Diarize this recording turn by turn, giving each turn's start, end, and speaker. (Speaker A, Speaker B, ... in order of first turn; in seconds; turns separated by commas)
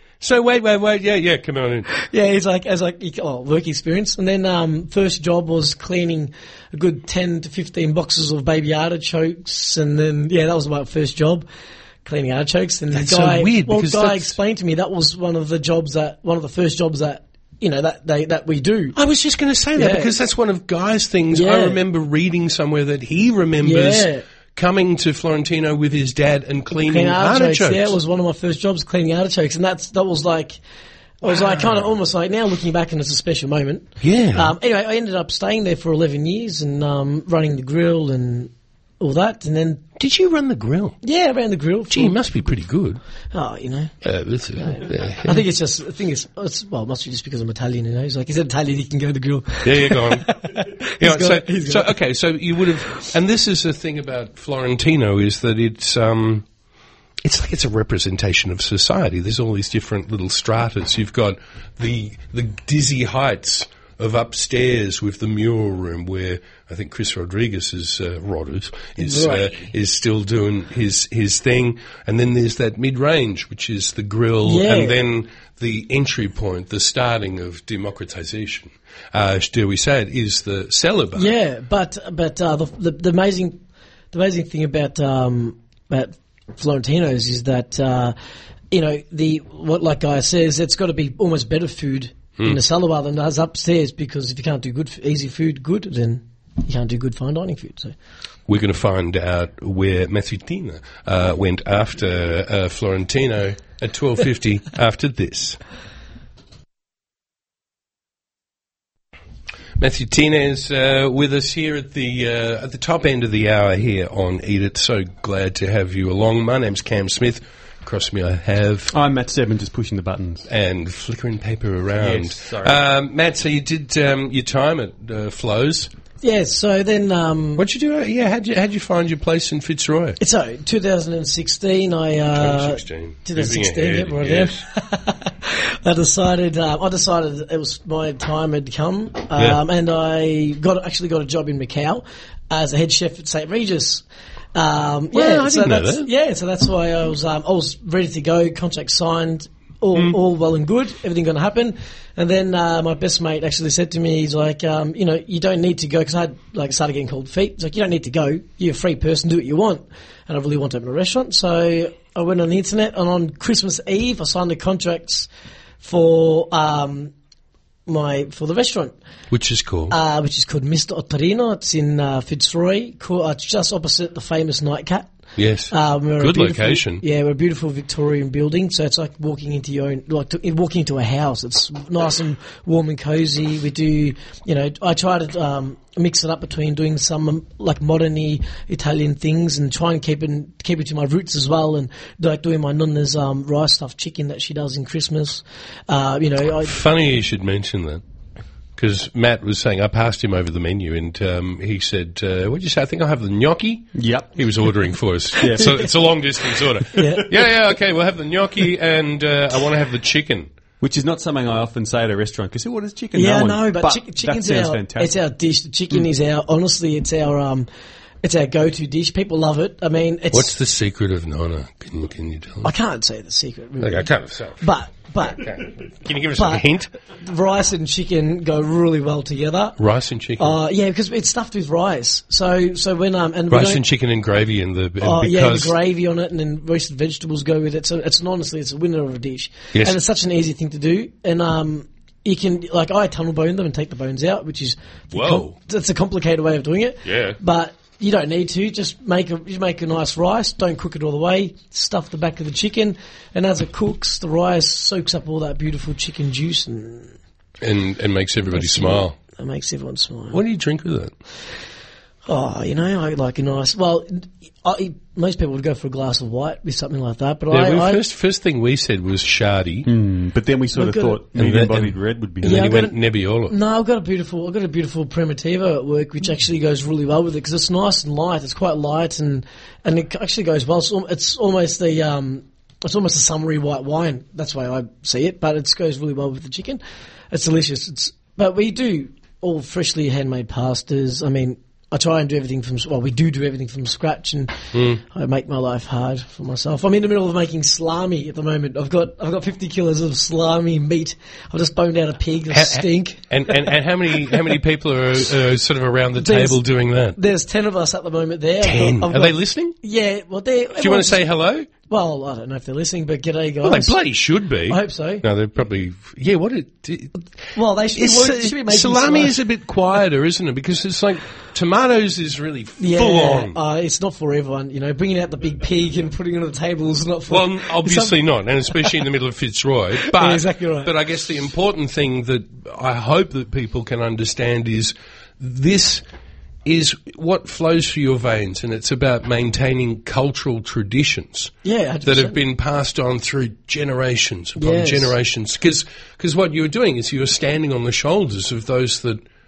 Speaker A: 0.2-1.9, Speaker B: 1.9-11.4, Speaker B: 12.0-18.9, Speaker A: 12.9-14.3, Speaker A: 18.9-28.0, Speaker B: 19.7-20.1, Speaker B: 21.3-21.8, Speaker B: 23.6-24.2, Speaker B: 26.7-30.6, Speaker B: 31.2-39.9, Speaker A: 34.0-34.5, Speaker A: 40.0-41.0, Speaker B: 41.0-42.2, Speaker A: 41.9-43.0, Speaker B: 43.3-43.9, Speaker A: 44.0-45.4, Speaker B: 44.6-51.9, Speaker A: 49.6-50.4, Speaker A: 51.0-56.4, Speaker A: 57.2-81.3, Speaker B: 69.0-69.7, Speaker B: 74.4-75.0, Speaker B: 81.1-83.6, Speaker B: 84.1-88.1, Speaker B: 88.7-97.9, Speaker A: 98.5-105.6, Speaker A: 109.8-118.9, Speaker C: 118.9-120.5, Speaker A: 120.5-125.9, Speaker C: 122.0-122.8, Speaker B: 126.2-127.6, Speaker A: 127.6-130.2, Speaker B: 130.2-144.0, Speaker A: 132.3-134.6, Speaker A: 139.3-139.6, Speaker B: 144.5-165.3, Speaker A: 145.1-146.1, Speaker B: 165.8-167.1, Speaker B: 167.9-168.9, Speaker A: 169.3-169.9, Speaker B: 169.9-175.1, Speaker A: 175.4-177.0, Speaker B: 175.7-196.8, Speaker A: 196.6-198.0, Speaker A: 198.8-210.5, Speaker C: 203.9-204.6, Speaker C: 205.4-205.9, Speaker B: 205.6-205.9, Speaker B: 206.9-207.5, Speaker C: 210.8-215.1, Speaker B: 213.1-217.7, Speaker B: 218.2-220.5, Speaker A: 220.3-222.7, Speaker B: 222.6-225.5, Speaker A: 223.8-224.6, Speaker A: 225.3-226.9, Speaker B: 226.3-229.8, Speaker A: 229.8-230.5, Speaker B: 230.4-233.8, Speaker A: 233.5-235.8, Speaker B: 235.0-257.1, Speaker A: 245.1-245.5, Speaker A: 247.0-247.4, Speaker A: 257.6-259.2, Speaker B: 258.5-260.4, Speaker A: 260.3-261.1, Speaker B: 262.3-268.0, Speaker A: 267.5-269.9, Speaker C: 269.9-272.7, Speaker B: 270.7-271.2, Speaker A: 271.3-273.6, Speaker B: 272.4-303.7, Speaker A: 294.7-295.0, Speaker A: 302.5-307.2, Speaker B: 306.2-306.6, Speaker B: 307.1-314.0, Speaker A: 308.6-309.8, Speaker A: 310.8-311.7, Speaker A: 313.6-317.2, Speaker B: 314.6-315.2, Speaker B: 317.5-319.3, Speaker A: 317.9-323.6, Speaker B: 322.8-328.2, Speaker A: 327.3-336.0, Speaker B: 330.0-330.9, Speaker A: 336.6-349.2, Speaker B: 341.6-342.4, Speaker B: 344.6-345.1